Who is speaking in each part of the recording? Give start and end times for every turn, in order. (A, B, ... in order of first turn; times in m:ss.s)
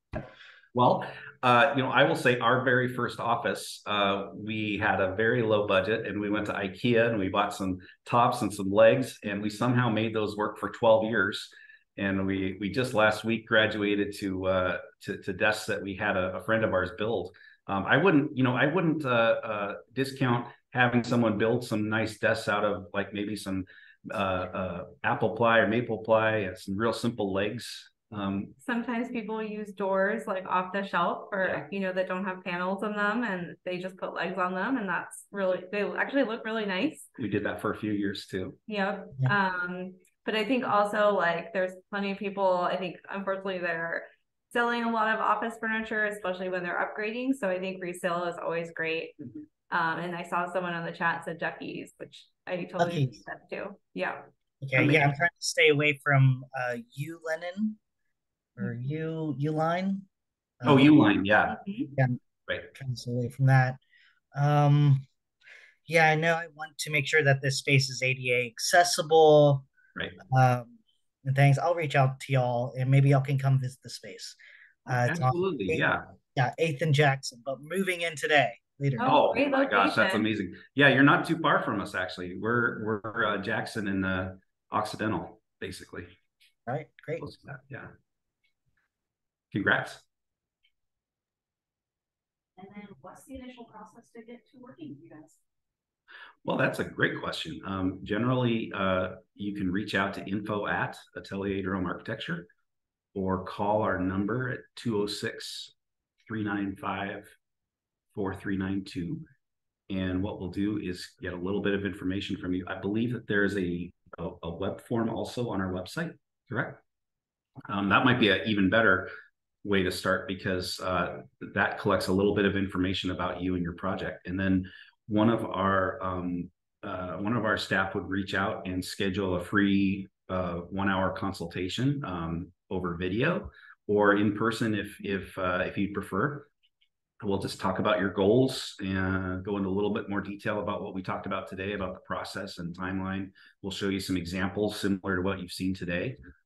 0:00.7-0:28.6 A
0:28.6-0:37.1 B
0:37.2-0:38.6 A
0:38.7-0:49.2 B
0:49.7-0:54.3 B
0:52.8-0:53.2 C
0:54.6-0:57.8 C
0:54.8-0:55.1 A
0:58.6-1:00.0 C
1:00.6-1:01.0 C
1:00.6-1:01.6 A
1:01.5-1:02.0 B
1:02.7-1:03.8 C
1:04.3-1:05.0 C
1:05.9-1:09.7 C
1:10.3-1:14.4 C
1:14.9-1:19.2 C
1:14.9-1:16.1 A
1:19.0-1:20.3 B
1:19.0-1:26.1 A
1:26.7-1:27.2 C
1:27.2-1:27.9 A
1:29.5-1:30.0 A
1:32.6-1:35.4 D
1:36.4-1:42.5 A
1:43.1-1:45.7 A
1:46.3-1:47.3 A
1:48.1-1:49.3 A
1:49.9-1:56.8 A
1:57.7-1:59.1 A
1:59.6-2:16.5 A
2:17.2-2:26.2 A